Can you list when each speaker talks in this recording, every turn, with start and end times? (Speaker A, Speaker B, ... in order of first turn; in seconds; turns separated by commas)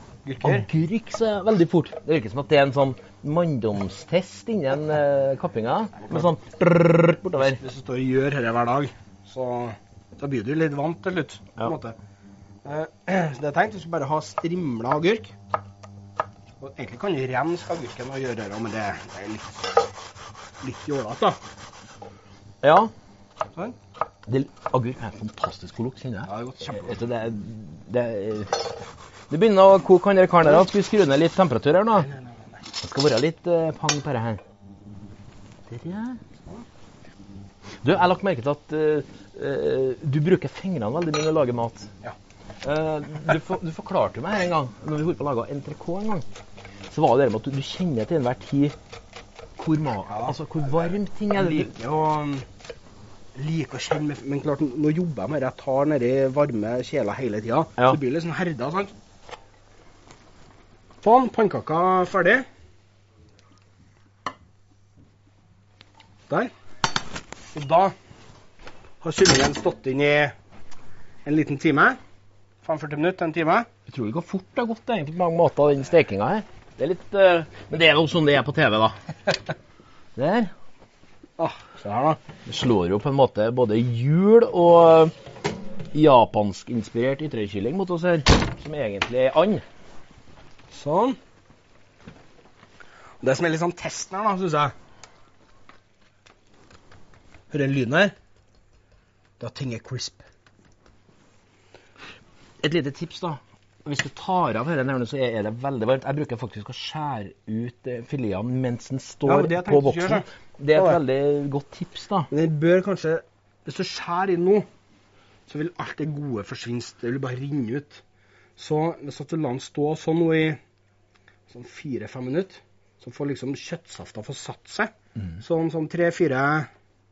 Speaker A: 0.2-0.7, Speaker B: 0.4-7.6, Speaker A: 7.4-11.9, Speaker A: 12.6-15.3, Speaker A: 16.6-19.5, Speaker A: 20.6-21.4, Speaker B: 22.6-22.9, Speaker B: 24.3-28.8, Speaker A: 26.2-27.0, Speaker B: 29.3-32.1, Speaker A: 32.0-32.6, Speaker B: 32.8-34.4, Speaker B: 35.7-36.2, Speaker B: 37.8-41.9, Speaker B: 42.6-46.2, Speaker B: 46.9-48.7, Speaker B: 49.6-51.7, Speaker A: 50.1-50.4, Speaker A: 51.3-52.5, Speaker A: 53.3-58.9, Speaker A: 61.0-62.4, Speaker A: 67.5-67.9, Speaker A: 69.0-70.3, Speaker A: 71.2-72.0, Speaker A: 72.6-73.7, Speaker B: 73.9-78.9, Speaker B: 80.2-80.5, Speaker A: 81.4-82.2, Speaker B: 82.5-85.1, Speaker B: 85.9-89.6, Speaker A: 90.7-91.2, Speaker A: 93.2-94.7, Speaker A: 97.5-98.1, Speaker A: 99.4-100.2, Speaker B: 102.6-112.3, Speaker A: 109.2-111.0, Speaker A: 112.3-114.7, Speaker A: 115.5-118.0, Speaker A: 118.6-120.6, Speaker A: 121.5-126.7